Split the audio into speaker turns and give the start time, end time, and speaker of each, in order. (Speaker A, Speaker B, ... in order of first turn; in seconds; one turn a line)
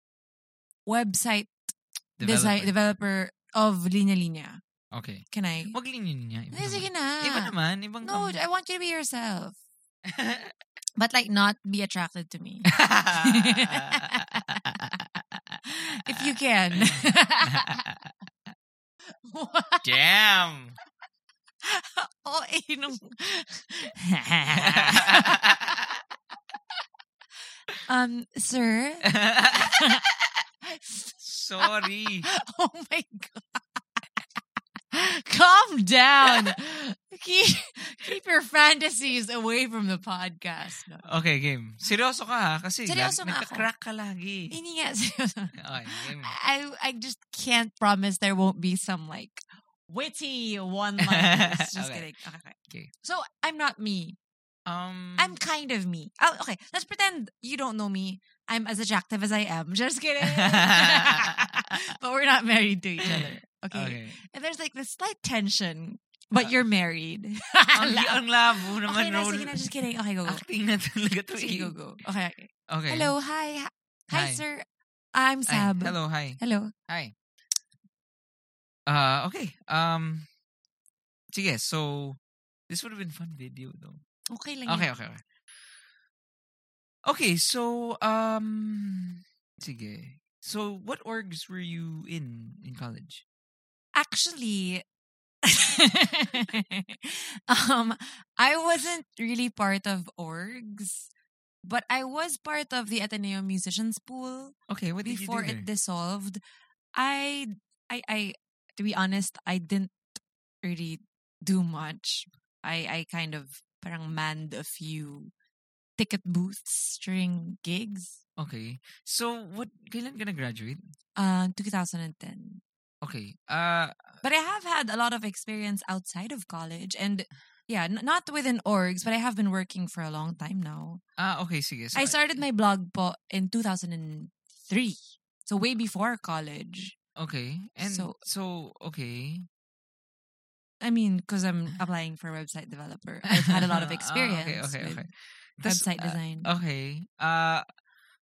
Speaker A: 0.9-4.6
Speaker B: 2.2-2.7
Speaker B: 4.9-8.4
Speaker A: 5.3-5.8
Speaker A: 6.5-9.6
Speaker B: 10.1-10.5
Speaker A: 11.0-14.8
Speaker B: 12.7-15.6
Speaker A: 15.7-17.8
Speaker B: 16.1-18.1
Speaker A: 19.2-19.9
Speaker B: 19.8-20.8
Speaker A: 21.6-25.6
Speaker B: 24.5-26.0
Speaker A: 27.9-30.0
Speaker B: 29.1-30.1
Speaker A: 30.6-34.2
Speaker B: 31.2-32.3
Speaker A: 34.9-41.1
Speaker B: 41.0-44.5
Speaker A: 42.9-43.7
Speaker A: 44.5-54.2
Speaker B: 45.5-46.3
Speaker B: 51.0-52.1
Speaker B: 54.7-55.4
Speaker A: 55.2-70.4
Speaker B: 60.2-61.8
Speaker B: 63.0-64.2
Speaker B: 67.7-69.7
Speaker B: 70.2-71.7
Speaker A: 71.3-76.7
Speaker B: 72.7-73.1
Speaker B: 74.1-74.4
Speaker B: 75.5-77.1
Speaker B: 78.9-80.3
Speaker B: 81.3-84.0
Speaker A: 84.3-84.9
Speaker B: 84.7-85.2
Speaker B: 87.1-93.2
Speaker A: 94.0-94.8
Speaker A: 95.4-101.1
Speaker A: 101.6-106.4
Speaker B: 104.7-105.7
Speaker A: 106.9-110.0
Speaker A: 110.6-115.3
Speaker A: 116.0-118.2
Speaker B: 118.4-120.9
Speaker A: 121.2-122.6
Speaker B: 123.0-124.1
Speaker A: 124.2-131.0
Speaker B: 131.2-132.4
Speaker A: 131.9-137.0
Speaker B: 137.2-139.5
Speaker A: 137.8-138.2
Speaker A: 140.8-145.1
Speaker B: 143.4-147.7
Speaker A: 145.7-146.5